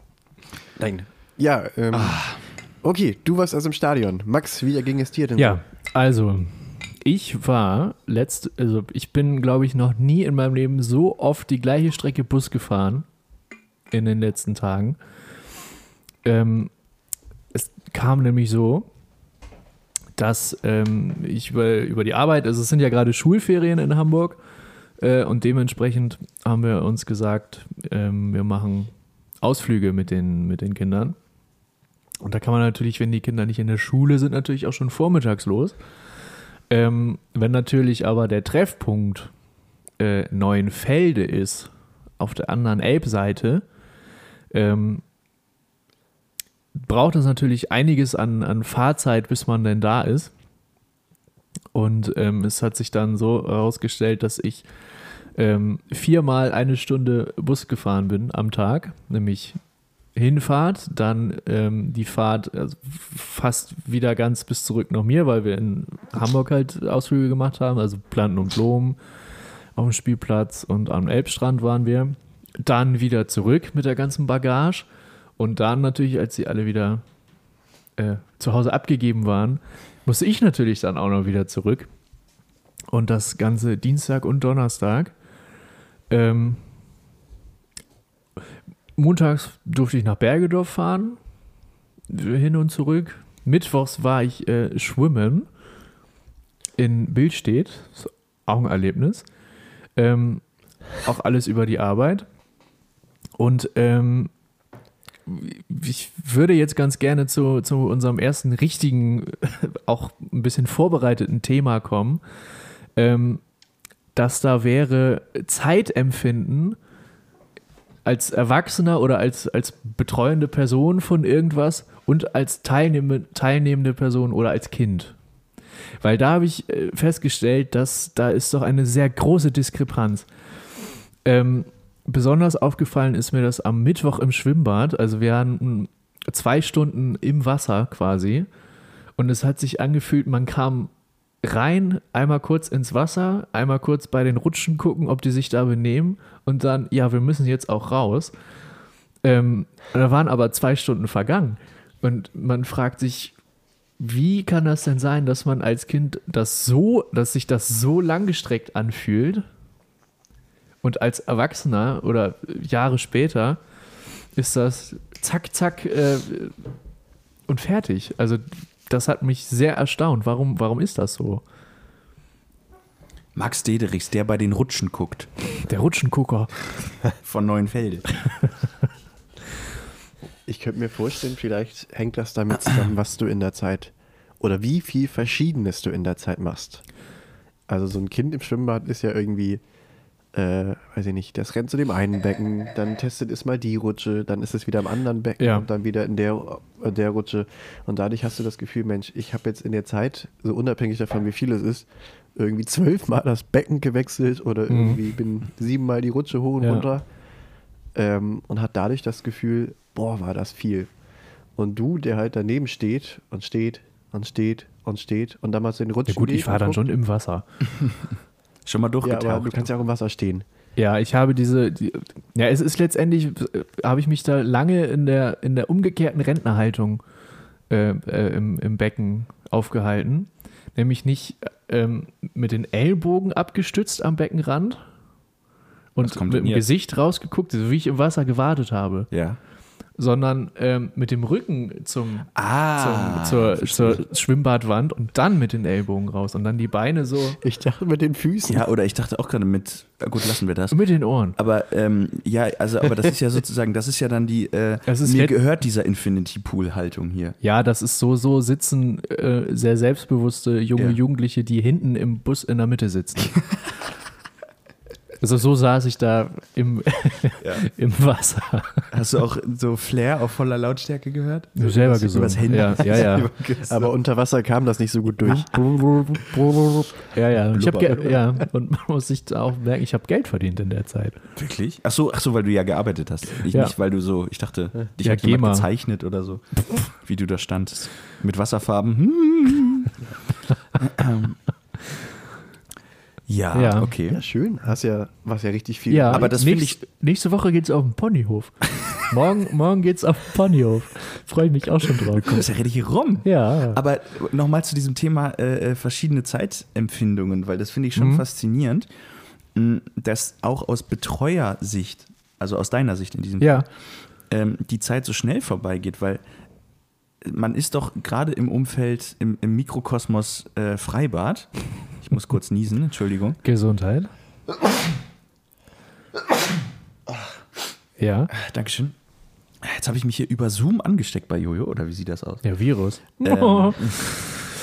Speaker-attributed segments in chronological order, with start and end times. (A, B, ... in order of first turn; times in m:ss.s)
0:00.8-0:02.2 A
0:01.9-0:02.4 B
0:02.8-0:05.6 A
0:05.4-0:13.0 C
0:13.9-0:15.0 C
0:16.2-0:16.7 C
0:17.5-0:18.9 C
0:20.2-0:24.4 C
0:25.0-0:28.9 C
0:29.4-0:31.2 C
0:32.2-0:35.7 C
0:36.7-0:39.3 C
0:40.0-0:43.6 C
0:44.5-0:45.0 C
0:46.8-0:50.3 C
0:51.7-0:54.6 C
0:55.4-0:59.6 C
1:00.1-1:09.0 C
1:09.8-1:14.9 C
1:15.4-1:17.0 C
1:18.0-1:21.9 C
1:22.9-1:25.1 C
1:26.1-1:26.6 C
1:29.0-1:31.2 C
1:32.1-1:35.5 C
1:36.8-1:39.2 C
1:40.0-1:40.4 C
1:41.0-1:42.2 C
1:43.4-1:44.3 C
1:45.2-1:52.2 C
1:53.0-1:53.4 C
1:54.1-1:56.8 C
1:58.0-2:05.1 C
2:06.0-2:10.2 C
2:11.2-2:18.5 C
2:19.2-2:20.9 C
2:21.4-2:28.3 C
2:29.2-2:33.3 C
2:34.0-2:39.4 C
2:40.8-2:43.6 C
2:44.4-2:46.6 C
2:47.5-2:51.4 C
2:53.3-2:55.3 B
2:55.6-2:56.5 C
2:57.2-2:58.1 B
3:00.4-3:06.8 A
3:07.7-3:09.6 A
3:10.3-3:27.0 A
3:15.4-3:15.6 C
3:24.7-3:25.0 C
3:26.6-3:26.9 C
3:27.9-3:30.9 A
3:31.6-3:36.8 A
3:36.1-3:37.4 C
3:38.6-3:39.7 B
3:39.0-3:40.4 A
3:40.8-3:47.0 C
3:47.7-3:54.8 C
3:55.9-3:59.1 C
3:56.0-3:56.6 B
3:59.1-3:59.4 B
4:00.0-4:07.4 C
4:02.4-4:04.0 B
4:07.4-4:08.7 A
4:08.4-4:10.8 B
4:10.7-4:11.4 C
4:11.4-4:17.4 B
4:14.9-4:15.3 C
4:17.4-4:23.4 C
4:25.2-4:28.9 C
4:27.4-4:27.7 B
4:28.9-4:33.9 B
4:31.6-4:33.3 C
4:33.6-4:36.8 A
4:36.2-4:36.4 B
4:37.1-4:41.2 C
4:37.5-4:38.2 B
4:41.4-4:50.0 B
4:45.0-4:45.7 C
4:50.8-4:51.4 B
4:53.3-4:54.2 B
4:53.5-4:53.9 C
4:54.1-4:56.3 A
4:55.9-5:02.5 C
4:56.1-4:56.8 B
5:02.1-5:08.9 B
5:03.2-5:03.8 C
5:08.0-5:08.2 C
5:09.5-5:13.6 B
5:13.4-5:13.6 C
5:14.3-5:16.2 B
5:17.2-5:23.4 B
5:23.4-5:24.1 C
5:28.0-5:28.3 C
5:28.3-5:28.9 B
5:29.6-5:32.4 B
5:32.4-5:34.3 C
5:33.2-5:34.2 B